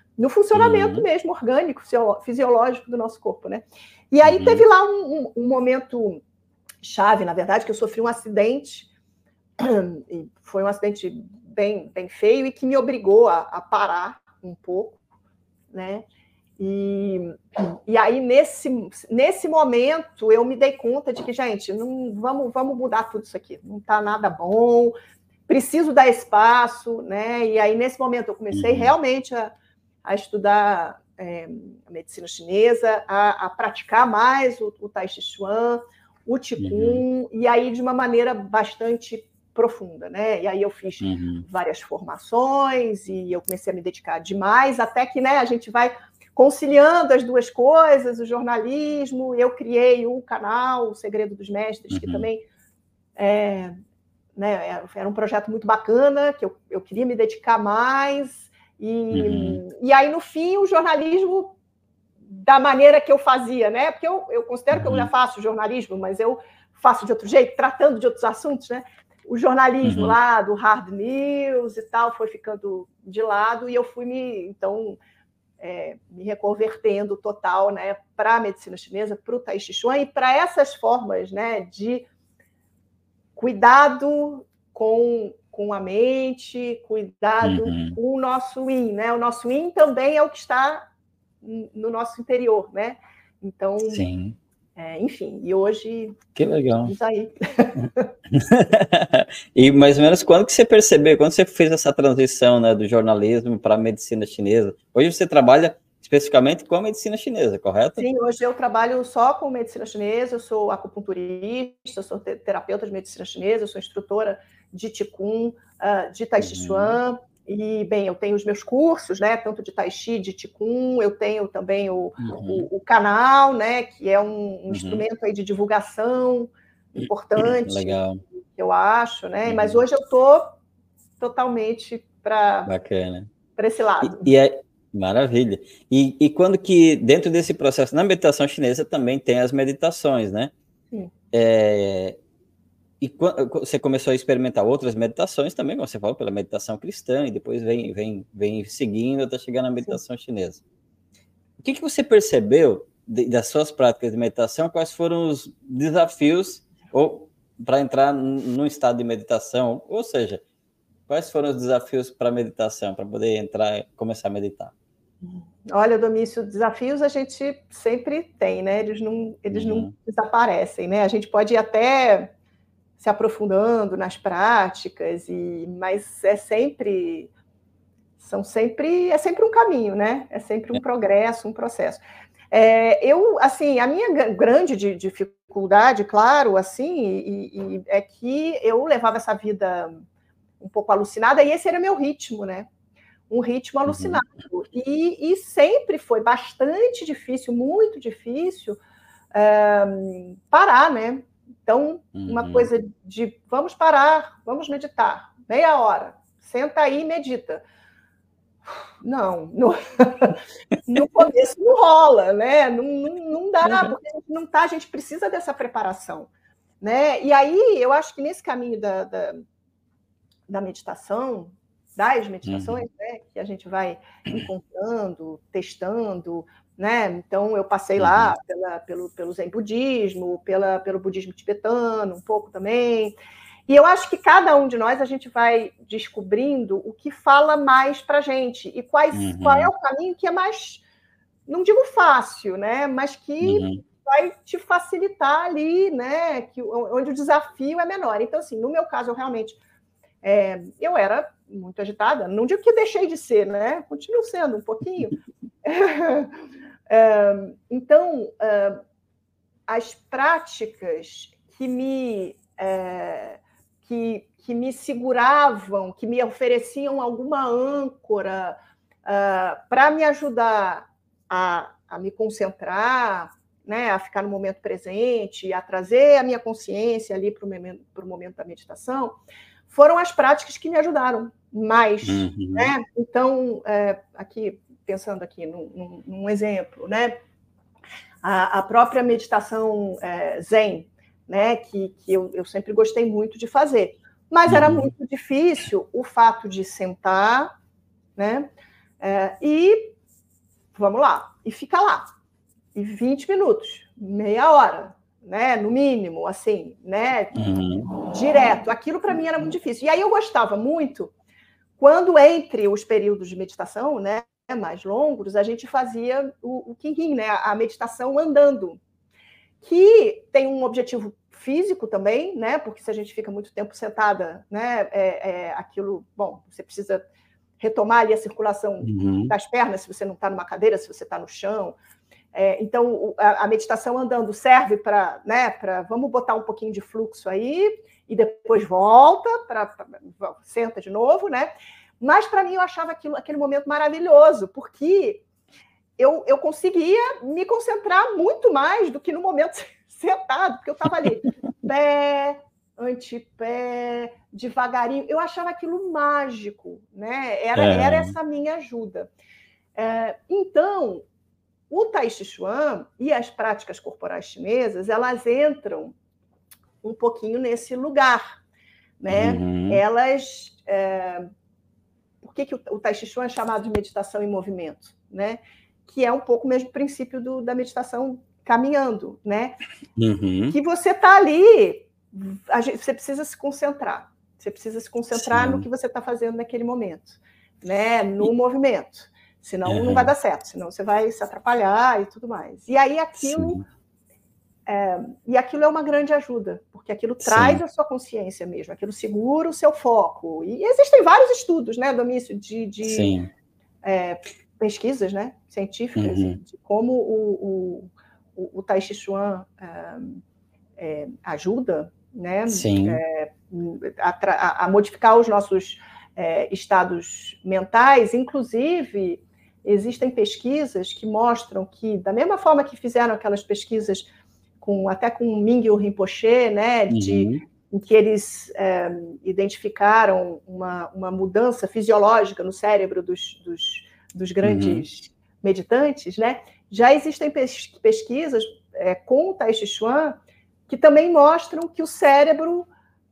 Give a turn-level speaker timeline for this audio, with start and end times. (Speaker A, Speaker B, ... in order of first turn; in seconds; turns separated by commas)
Speaker A: 0.2-6.2, Speaker B: 0.6-1.1, Speaker B: 4.2-4.7, Speaker A: 6.8-8.9, Speaker A: 9.6-15.0, Speaker A: 15.7-16.1, Speaker A: 16.6-24.9, Speaker A: 25.5-29.5, Speaker B: 28.5-28.9, Speaker A: 30.1-52.4, Speaker B: 36.6-37.0, Speaker B: 41.0-41.5, Speaker B: 51.9-52.3, Speaker A: 53.2-53.8, Speaker A: 54.4-61.6, Speaker B: 59.1-59.6, Speaker A: 62.3-75.0, Speaker B: 64.7-65.1, Speaker B: 69.8-70.2, Speaker A: 75.6-82.1, Speaker A: 83.4-90.8, Speaker B: 87.4-88.0, Speaker A: 91.4-94.1, Speaker B: 93.9-94.4, Speaker A: 94.8-96.2, Speaker B: 96.3-96.9, Speaker A: 96.8-98.1, Speaker B: 98.3-108.1, Speaker A: 108.0-130.6, Speaker B: 116.4-117.0, Speaker B: 122.2-122.7, Speaker B: 124.7-125.0, Speaker B: 127.0-128.2, Speaker B: 129.5-129.8, Speaker A: 131.2-132.7, Speaker B: 132.7-133.3, Speaker A: 133.6-134.3, Speaker B: 134.0-140.5, Speaker B: 141.3-142.2, Speaker B: 143.0-150.6, Speaker B: 151.6-160.4, Speaker B: 161.1-164.7, Speaker A: 165.2-172.3, Speaker B: 169.5-169.9, Speaker A: 173.0-177.3, Speaker A: 178.2-190.0, Speaker A: 190.6-192.7, Speaker A: 193.3-198.8, Speaker B: 193.9-194.2, Speaker A: 199.3-207.6, Speaker B: 202.2-202.7, Speaker A: 209.0-216.3, Speaker B: 213.6-213.9, Speaker A: 216.8-219.4, Speaker A: 220.5-233.2, Speaker B: 222.5-222.8, Speaker B: 228.0-228.3, Speaker A: 233.7-240.8, Speaker B: 239.1-239.7, Speaker A: 241.5-249.6, Speaker B: 243.4-243.8, Speaker A: 250.2-256.4, Speaker A: 256.9-258.8, Speaker A: 259.7-279.2, Speaker A: 279.7-287.1, Speaker B: 282.0-282.7, Speaker A: 288.2-297.5, Speaker B: 294.5-294.9, Speaker A: 298.2-298.5, Speaker A: 299.0-299.9, Speaker A: 300.7-302.1, Speaker A: 302.8-311.1, Speaker B: 307.3-307.9, Speaker A: 311.8-318.8, Speaker A: 319.6-327.0, Speaker A: 327.6-331.8, Speaker B: 328.8-329.4, Speaker A: 332.3-345.2, Speaker A: 346.0-359.1, Speaker B: 357.6-358.1, Speaker A: 359.8-361.0, Speaker A: 361.7-365.9, Speaker A: 366.8-368.4, Speaker A: 369.0-371.3, Speaker B: 369.1-369.8, Speaker A: 372.2-379.6, Speaker B: 380.0-380.6, Speaker A: 380.5-393.6, Speaker B: 385.1-385.7, Speaker B: 389.7-390.1, Speaker B: 393.2-393.6, Speaker A: 394.7-403.1, Speaker B: 397.2-397.6, Speaker B: 402.8-403.3, Speaker A: 403.8-410.2, Speaker B: 406.0-406.4, Speaker A: 410.8-424.1, Speaker B: 412.5-413.0, Speaker A: 424.6-442.7, Speaker B: 426.9-427.4, Speaker B: 434.4-434.9